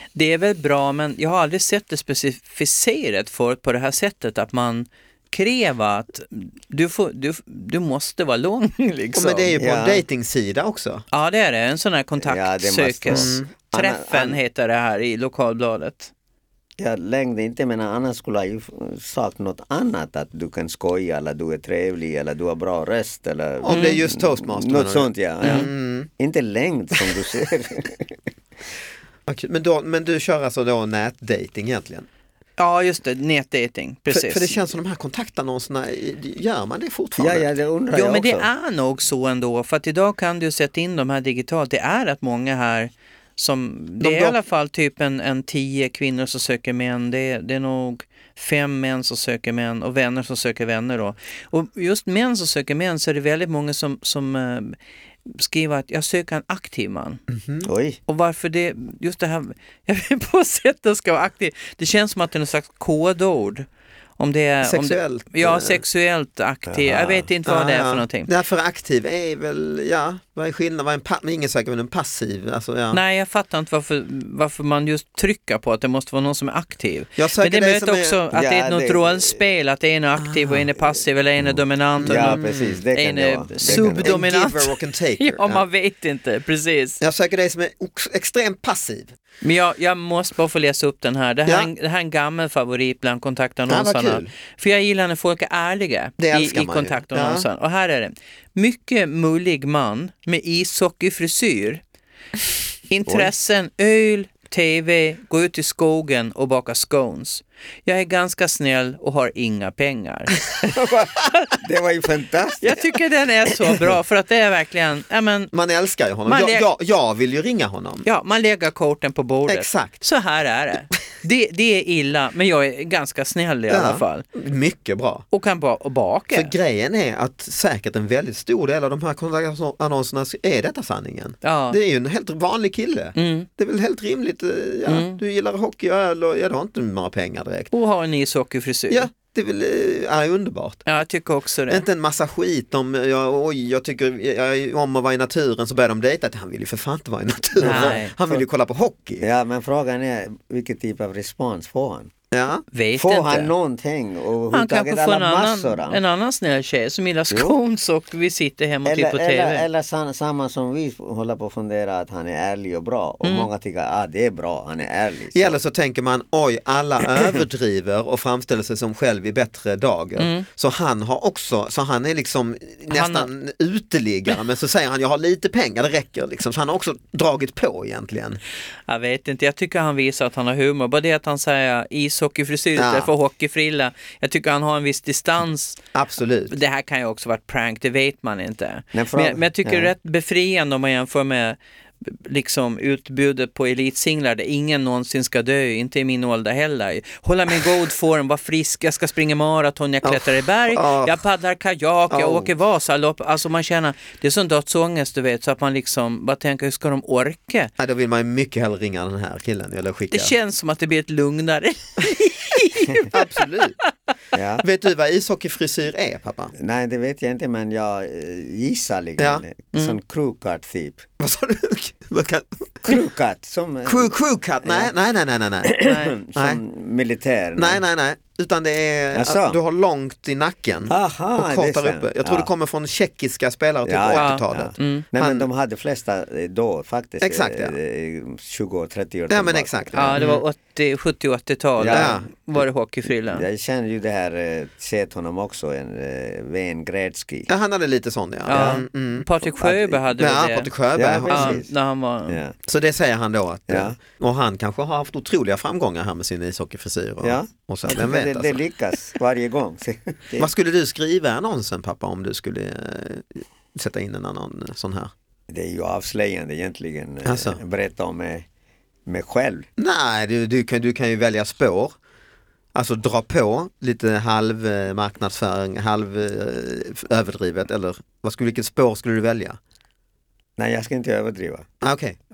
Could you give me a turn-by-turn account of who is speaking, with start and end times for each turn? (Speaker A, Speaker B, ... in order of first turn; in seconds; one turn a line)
Speaker A: 0.1-9.6
Speaker B: 9.1-11.0
Speaker C: 9.6-10.0
Speaker A: 11.1-16.1
Speaker C: 12.2-14.4
Speaker B: 13.1-13.5
Speaker C: 16.8-28.2
Speaker B: 23.6-26.1
Speaker A: 23.7-24.0
Speaker A: 25.4-25.7
Speaker B: 29.3-32.1
Speaker A: 32.6-34.6
Speaker B: 34.1-37.5
Speaker C: 37.2-38.5
Speaker A: 37.9-57.2
Speaker B: 44.0-44.4
Speaker B: 57.3-57.7
Speaker C: 57.6-58.0
Speaker A: 58.1-63.7
Speaker A: 64.2-68.3
Speaker B: 64.6-65.8
Speaker C: 66.7-67.3
Speaker B: 67.5-73.0
Speaker A: 72.9-87.0
Speaker B: 77.2-78.2
Speaker C: 78.3-79.4
Speaker B: 80.2-80.7
Speaker C: 81.4-84.2
Speaker B: 82.0-82.8
Speaker B: 83.7-85.6
Speaker B: 87.0-89.1
Speaker A: 89.4-101.8
Speaker B: 93.7-94.3
Speaker B: 96.2-97.5
Speaker A: 102.9-110.7
Speaker C: 110.6-113.0
Speaker A: 112.6-115.5
Speaker B: 115.5-118.0
Speaker A: 116.2-116.7
Speaker A: 118.0-124.2
Speaker B: 119.5-120.0
Speaker B: 123.7-125.2
Speaker A: 125.3-126.5
Speaker B: 126.3-137.7
Speaker A: 131.4-131.8
Speaker A: 133.2-133.5
Speaker A: 134.8-135.2
Speaker A: 137.7-139.1
Speaker B: 138.9-140.8
Speaker A: 140.8-141.8
Speaker B: 141.7-149.2
Speaker C: 147.6-148.4
Speaker A: 147.6-148.1
Speaker C: 149.2-152.1
Speaker B: 152.3-152.6
Speaker A: 152.7-153.5
Speaker C: 152.9-156.0
Speaker A: 154.5-159.6
Speaker C: 158.8-165.6
Speaker A: 163.2-163.5
Speaker B: 165.3-178.4
Speaker A: 170.2-170.4
Speaker A: 172.9-173.3
Speaker A: 178.9-185.8
Speaker B: 182.8-183.1
Speaker B: 185.9-186.5
Speaker A: 186.5-207.7
Speaker C: 188.9-189.9
Speaker B: 200.0-201.2
Speaker B: 202.1-202.5
Speaker B: 207.8-210.3
Speaker A: 210.1-213.9
Speaker B: 213.1-213.8
Speaker C: 214.3-214.6
Speaker B: 214.6-216.5
Speaker C: 216.5-221.1
Speaker B: 221.2-223.0
Speaker C: 222.8-224.1
Speaker B: 223.8-225.8
Speaker C: 224.6-224.9
Speaker C: 225.6-227.8
Speaker A: 225.8-226.1
Speaker B: 226.3-226.6
Speaker B: 227.6-235.5
Speaker C: 229.1-229.6
Speaker C: 230.9-232.5
Speaker C: 233.8-240.3
Speaker A: 234.1-235.1
Speaker B: 237.2-237.7
Speaker B: 239.3-240.4
Speaker A: 239.9-243.4
Speaker C: 241.8-242.6
Speaker B: 241.8-242.3
Speaker C: 243.3-247.5
Speaker B: 247.5-249.3
Speaker A: 248.5-250.7
Speaker C: 248.5-248.8
Speaker C: 249.6-250.0
Speaker B: 250.1-251.6
Speaker C: 250.9-251.7
Speaker A: 251.3-252.4
Speaker C: 252.3-252.6
Speaker B: 252.6-258.6
Speaker C: 253.7-253.9
Speaker C: 257.2-260.5
Speaker B: 260.4-265.1
Speaker C: 265.5-268.4
Speaker B: 267.2-267.6
Speaker C: 269.1-269.6
Speaker B: 269.8-271.9
Speaker B: 272.7-279.6
Speaker C: 280.6-281.8
Speaker B: 281.8-282.2